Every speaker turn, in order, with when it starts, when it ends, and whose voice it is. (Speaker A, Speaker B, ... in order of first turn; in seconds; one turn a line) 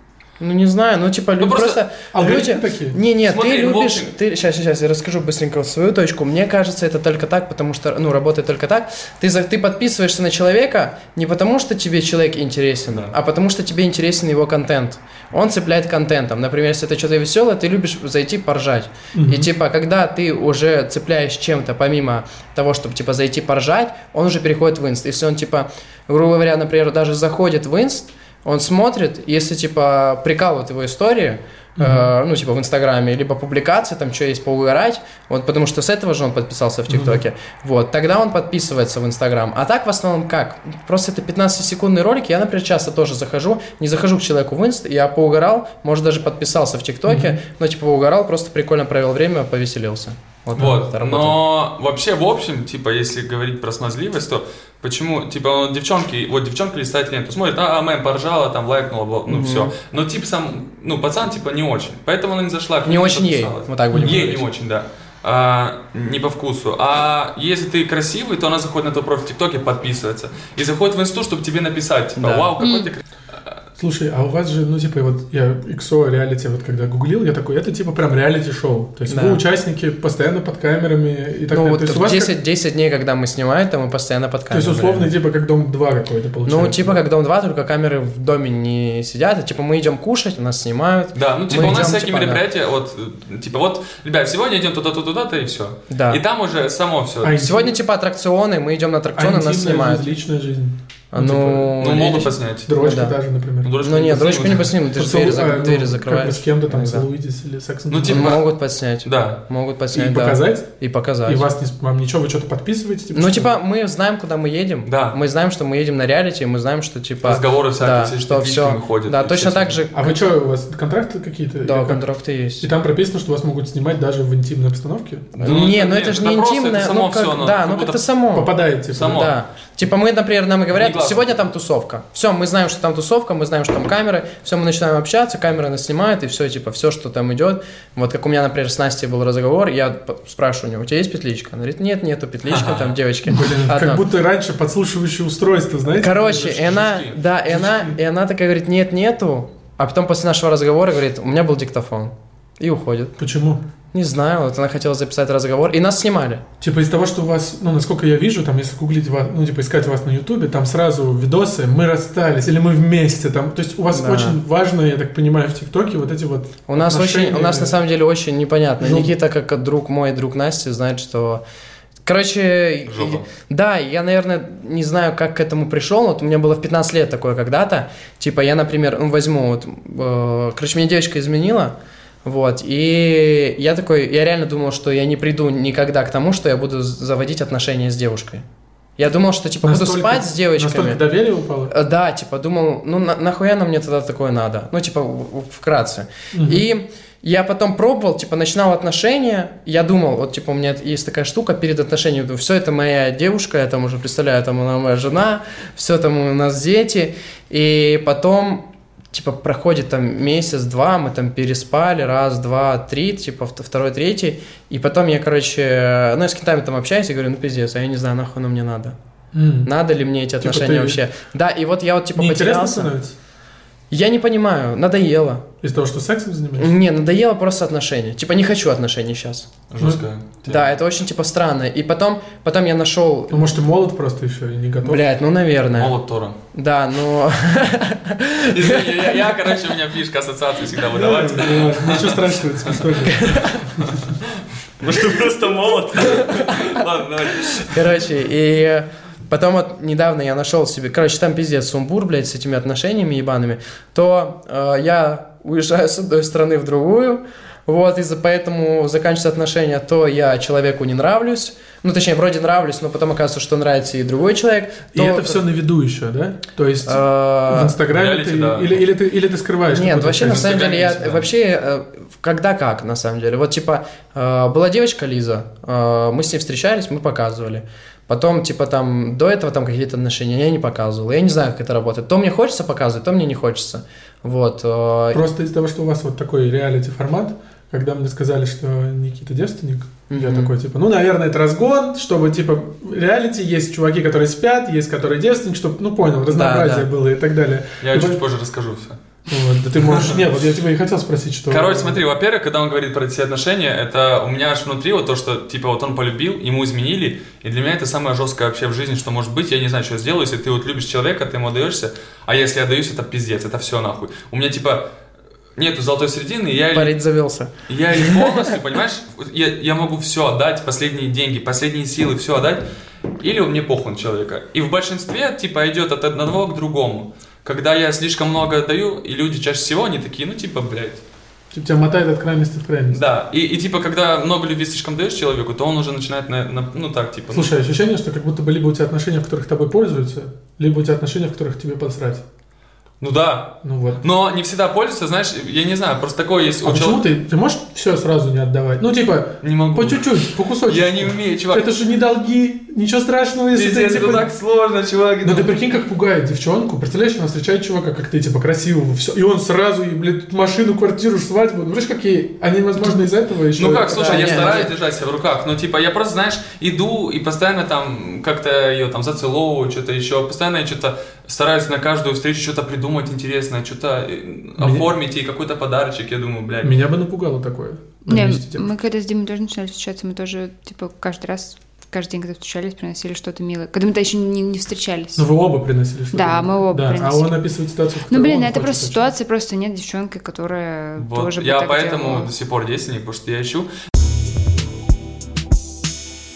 Speaker A: 0.4-51.4
Speaker B: 1.4-1.8
Speaker C: 2.1-3.0
Speaker B: 3.2-4.1
Speaker B: 12.9-13.1
Speaker C: 19.1-19.5
Speaker C: 31.8-32.1
Speaker C: 36.9-37.2
Speaker C: 47.1-47.4
Speaker B: 50.5-73.5
Speaker A: 59.3-59.7
Speaker A: 62.8-64.4
Speaker C: 63.9-64.2
Speaker A: 72.2-72.5
Speaker D: 72.6-72.9
Speaker C: 73.8-82.3
Speaker A: 79.1-79.4
Speaker A: 81.5-85.1
Speaker C: 84.5-87.0
Speaker A: 86.5-92.4
Speaker B: 91.1-97.4
Speaker A: 95.9-96.2
Speaker C: 97.2-97.8
Speaker A: 97.4-100.1
Speaker C: 99.2-102.1
Speaker A: 101.1-103.2
Speaker B: 101.8-102.7
Speaker C: 102.6-103.8
Speaker B: 103.6-104.7
Speaker A: 103.8-107.0
Speaker C: 104.8-108.3
Speaker B: 107.9-108.5
Speaker A: 108.1-111.4
Speaker B: 109.0-109.4
Speaker C: 109.9-110.7
Speaker C: 111.2-113.5
Speaker A: 113.1-120.3
Speaker B: 114.8-115.2
Speaker B: 117.2-119.8
Speaker C: 119.9-122.0
Speaker A: 121.6-122.7
Speaker C: 122.6-125.3
Speaker B: 125.3-128.0
Speaker A: 125.4-144.0
Speaker C: 128.3-129.3
Speaker B: 128.9-129.3
Speaker B: 130.7-131.4
Speaker B: 142.4-143.0
Speaker C: 143.3-146.9
Speaker A: 145.9-153.1
Speaker B: 146.4-147.2
Speaker C: 147.4-147.9
Speaker C: 153.2-153.6
Speaker A: 153.9-156.4
Speaker C: 156.6-167.8
Speaker A: 163.9-164.4
Speaker A: 166.7-171.4
Speaker C: 168.8-169.1
Speaker A: 172.0-188.4
Speaker B: 172.9-173.3
Speaker A: 189.0-191.0
Speaker C: 189.6-191.7
Speaker A: 191.7-218.9
Speaker C: 196.3-196.6
Speaker C: 219.3-219.7
Speaker A: 219.6-222.9
Speaker C: 220.4-221.0
Speaker C: 222.2-223.1
Speaker A: 223.9-225.5
Speaker C: 225.6-226.7
Speaker A: 226.6-229.5
Speaker B: 229.7-230.7
Speaker A: 230.4-233.5
Speaker C: 233.3-235.0
Speaker A: 234.8-235.9
Speaker B: 235.8-236.4
Speaker A: 236.5-239.3
Speaker B: 238.4-242.8
Speaker C: 240.9-244.0
Speaker A: 243.1-243.6
Speaker B: 244.8-247.8
Speaker A: 246.1-246.7
Speaker A: 247.6-265.4
Speaker C: 264.9-270.5
Speaker A: 266.8-267.8
Speaker B: 267.9-268.8
Speaker A: 269.7-285.2
Speaker B: 270.1-271.3
Speaker C: 285.1-298.2
Speaker A: 290.1-290.5
Speaker A: 296.3-296.9
Speaker B: 297.8-299.0
Speaker C: 299.3-302.0
Speaker B: 301.5-314.9
Speaker B: 315.6-317.0
Speaker A: 316.7-318.4
Speaker B: 317.7-322.6
Speaker B: 323.2-331.0
Speaker C: 331.5-333.0
Speaker B: 332.9-337.5
Speaker C: 337.3-342.2
Speaker B: 343.0-347.0
Speaker C: 343.6-344.0
Speaker C: 346.6-354.3
Speaker B: 349.4-351.7
Speaker B: 353.5-355.5
Speaker C: 355.2-364.6
Speaker B: 363.6-376.8
Speaker A: 363.9-364.7
Speaker C: 374.6-374.9
Speaker C: 376.6-378.7
Speaker D: 378.1-385.2
Speaker C: 385.1-389.1
Speaker D: 386.1-387.4
Speaker D: 388.1-392.3
Speaker B: 391.0-393.7